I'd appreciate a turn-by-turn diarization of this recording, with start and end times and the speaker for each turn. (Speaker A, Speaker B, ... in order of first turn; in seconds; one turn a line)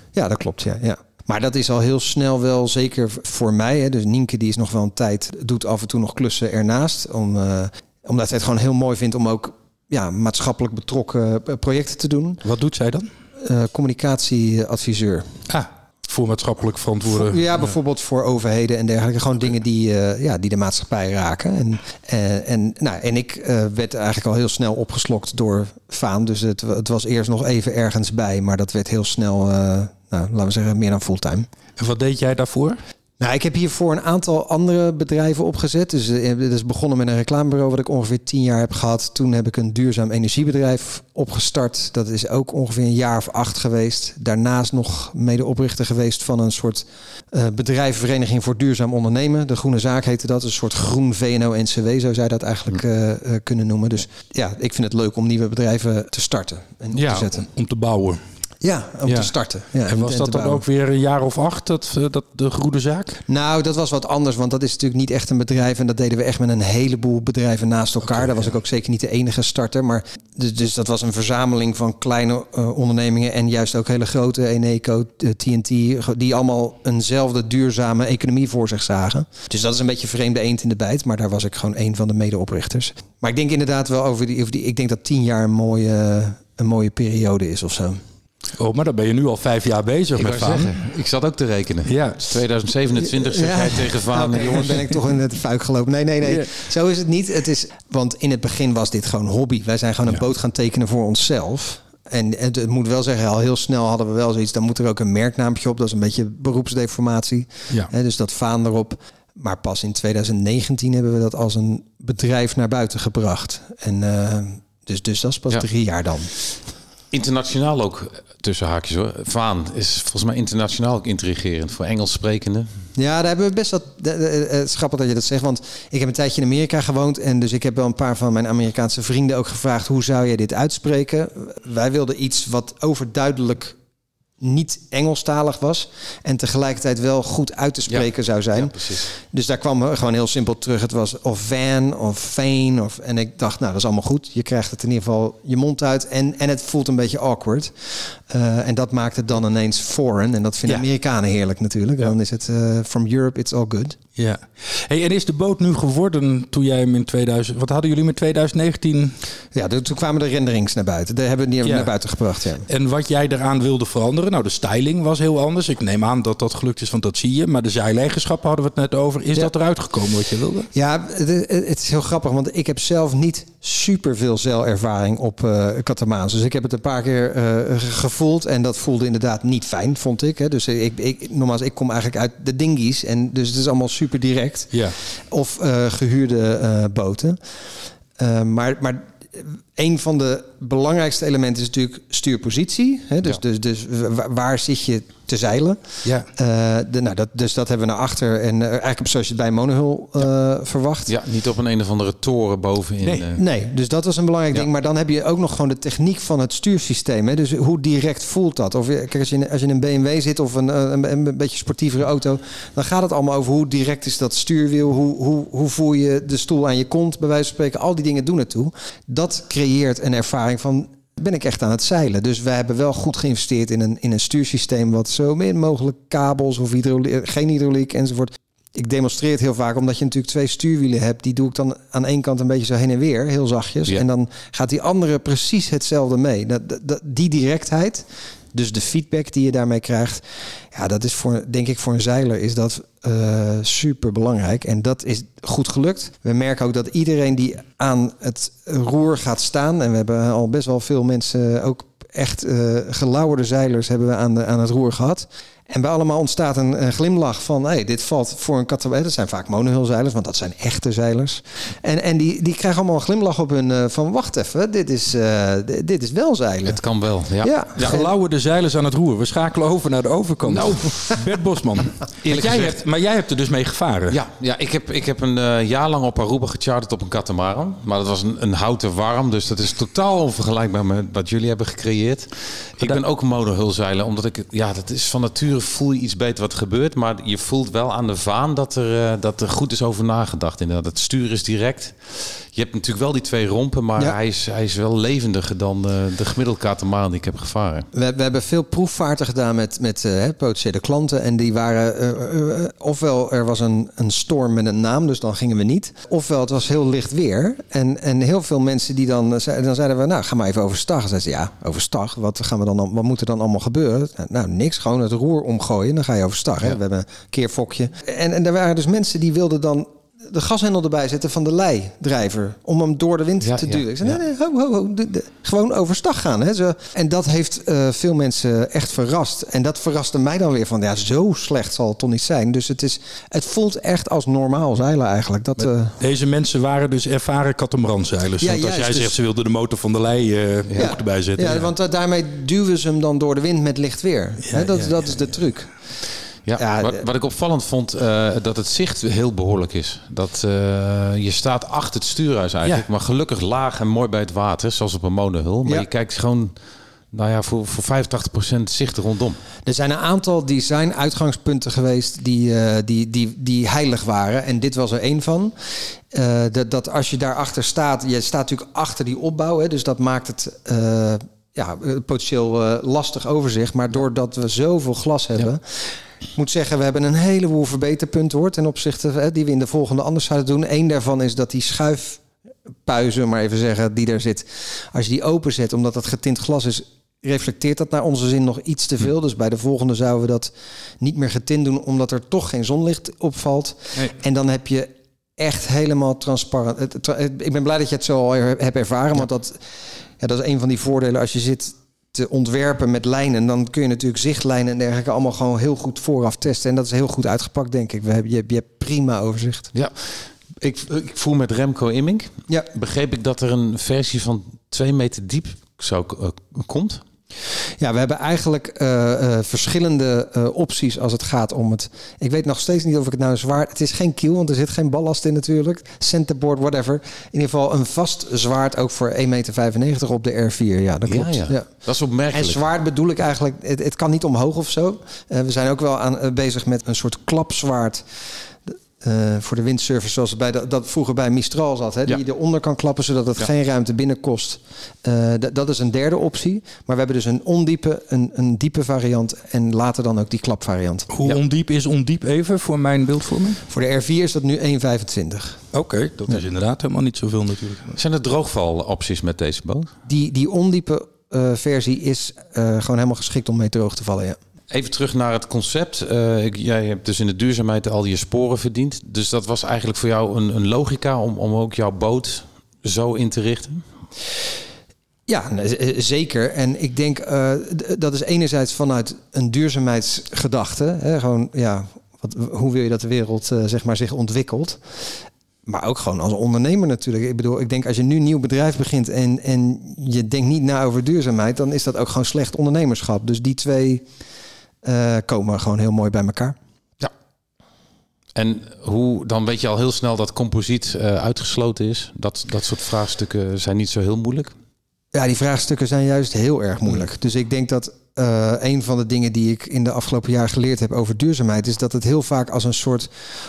Speaker A: 0.1-12.4
Speaker B: 12.4-13.1
Speaker A: 13.4-15.2
Speaker B: 15.5-17.4
Speaker A: 17.1-31.5
Speaker B: 31.8-32.8
Speaker A: 33.2-57.5
Speaker B: 56.9-58.2
Speaker A: 58.6-60.6
Speaker B: 59.1-59.3
Speaker B: 59.9-63.2
Speaker A: 63.3-88.0
Speaker B: 88.6-90.8
Speaker C: 90.2-95.0
Speaker B: 91.9-92.2
Speaker A: 93.0-116.3
Speaker B: 96.2-96.5
Speaker C: 117.1-122.7
Speaker A: 123.0-133.8
Speaker A: 134.4-154.0
Speaker C: 137.9-139.1
Speaker B: 154.2-159.2
Speaker A: 159.5-162.7
Speaker B: 161.6-161.9
Speaker B: 162.7-170.7
Speaker A: 170.7-187.4
Speaker B: 184.7-185.0
Speaker A: 188.2-195.8
Speaker A: 196.3-201.1
Speaker C: 201.1-203.4
Speaker A: 203.4-266.8
Speaker C: 266.6-268.0
Speaker A: 267.4-268.1
Speaker B: 267.8-274.2
Speaker C: 270.5-271.2
Speaker C: 272.2-272.8
Speaker C: 274.1-297.9
Speaker A: 297.9-335.9
Speaker C: 323.4-324.2
Speaker B: 336.0-341.7
Speaker A: 338.4-339.1
Speaker A: 340.8-345.7
Speaker B: 344.4-345.0
Speaker C: 346.5-356.6
Speaker A: 346.6-347.0
Speaker C: 357.1-359.4
Speaker A: 359.6-365.5
Speaker A: 366.1-375.8
Speaker A: 376.4-382.2
Speaker A: 382.9-399.6
Speaker A: 400.2-409.7
Speaker C: 409.7-417.0
Speaker A: 417.8-431.7
Speaker C: 431.1-432.6
Speaker A: 432.3-438.0
Speaker A: 438.7-451.1
Speaker B: 451.1-453.6
Speaker A: 453.7-455.6
Speaker B: 455.7-457.9
Speaker C: 457.9-459.9
Speaker A: 460.1-464.4
Speaker C: 464.7-473.8
Speaker A: 475.3-484.8
Speaker A: 485.6-494.1
Speaker A: 494.8-496.6
Speaker C: 498.4-504.5
Speaker A: 505.1-513.1